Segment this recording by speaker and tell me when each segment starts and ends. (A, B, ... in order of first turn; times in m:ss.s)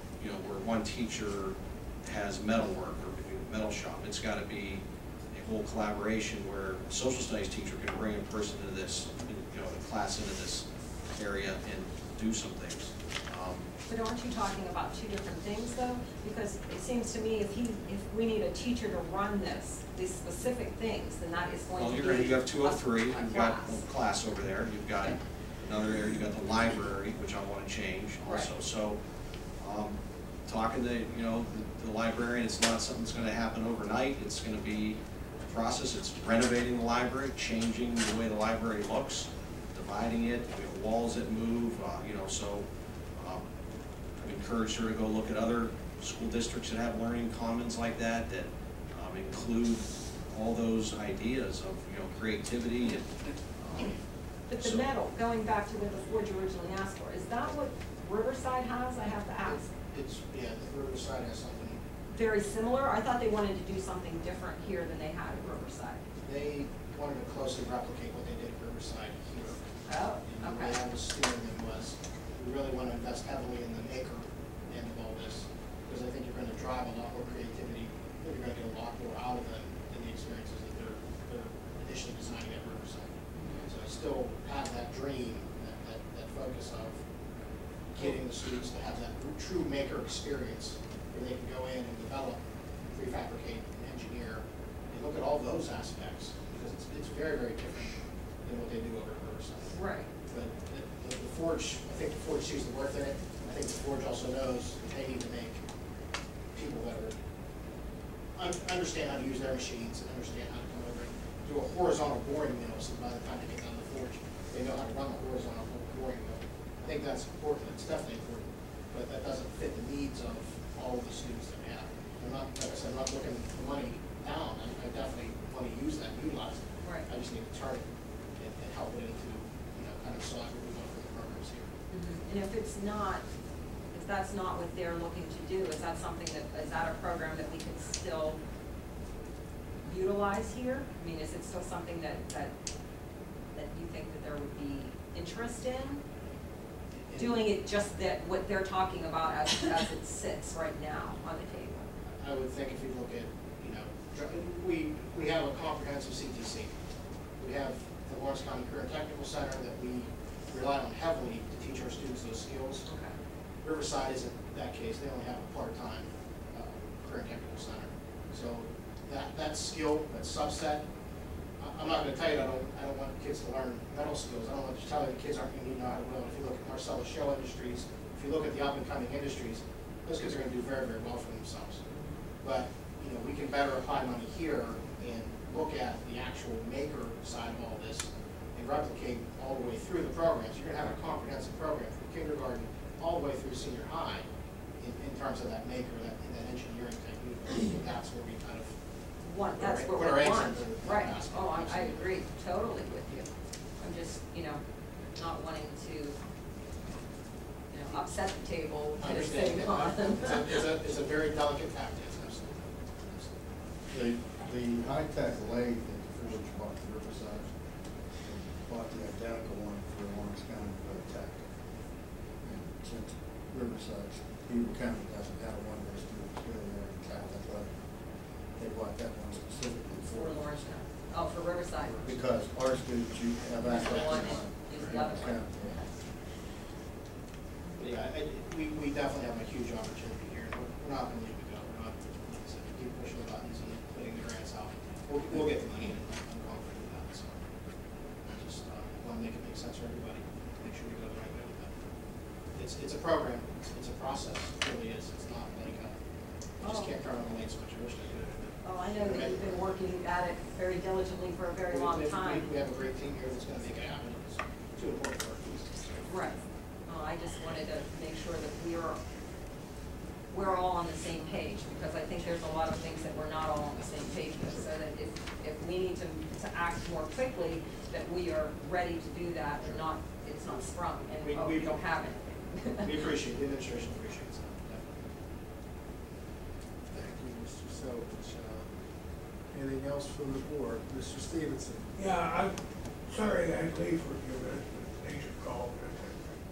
0:00.2-0:13.7 A
0:13.9-0:23.8 B
0:21.8-0:29.0 A
0:28.2-0:28.5 B
0:29.6-0:43.4 A
0:44.2-0:53.9 A
0:54.5-0:59.7 B
0:54.6-0:54.9 A
0:59.4-1:01.8 C
1:02.1-1:06.0 B
1:06.2-1:09.6 C
1:09.8-1:10.8 B
1:10.2-1:27.0 C
1:23.3-1:23.7 B
1:27.9-1:39.7 C
1:39.7-1:40.1 B
1:40.3-1:45.6 C
1:46.5-1:47.1 C
1:48.4-2:07.8 C
2:06.8-2:07.1 B
2:08.4-2:11.7 C
2:11.9-2:13.2 B
2:13.9-2:18.4 B
2:19.8-2:22.5 B
2:23.5-2:26.0 B
2:27.1-2:27.4 C
2:27.2-2:31.9 B
2:32.2-2:36.7 C
2:37.4-2:42.9 C
2:42.8-2:43.1 B
2:43.6-2:50.8 C
2:51.6-3:01.8 C
3:01.9-3:02.2 B
3:02.4-3:14.3 C
3:14.8-3:18.7 C
3:19.2-3:23.3 B
3:19.5-3:22.1 C
3:23.8-3:24.6 B
3:25.1-3:26.2 B
3:27.7-3:30.6 B
3:29.0-3:33.6 C
3:33.9-3:37.5 D
3:38.2-3:41.4 D
3:42.4-3:47.7 D
3:48.6-3:50.6 D
3:50.0-3:52.1 B
3:51.9-3:55.8 D
3:53.6-3:55.5 B
3:53.8-3:54.2 C
3:57.8-4:07.4 C
4:08.3-4:11.7 C
4:12.5-4:15.9 C
4:16.6-4:19.7 C
4:16.6-4:17.0 B
4:18.6-4:22.5 B
4:21.7-4:26.1 C
4:26.0-4:29.0 B
4:30.3-4:42.9 B
4:39.6-4:39.8 C
4:41.2-4:41.8 C
4:42.8-4:45.0 C
4:46.9-4:48.7 E
4:49.5-4:51.8 E
4:52.0-4:52.5 F
4:53.1-4:56.4 F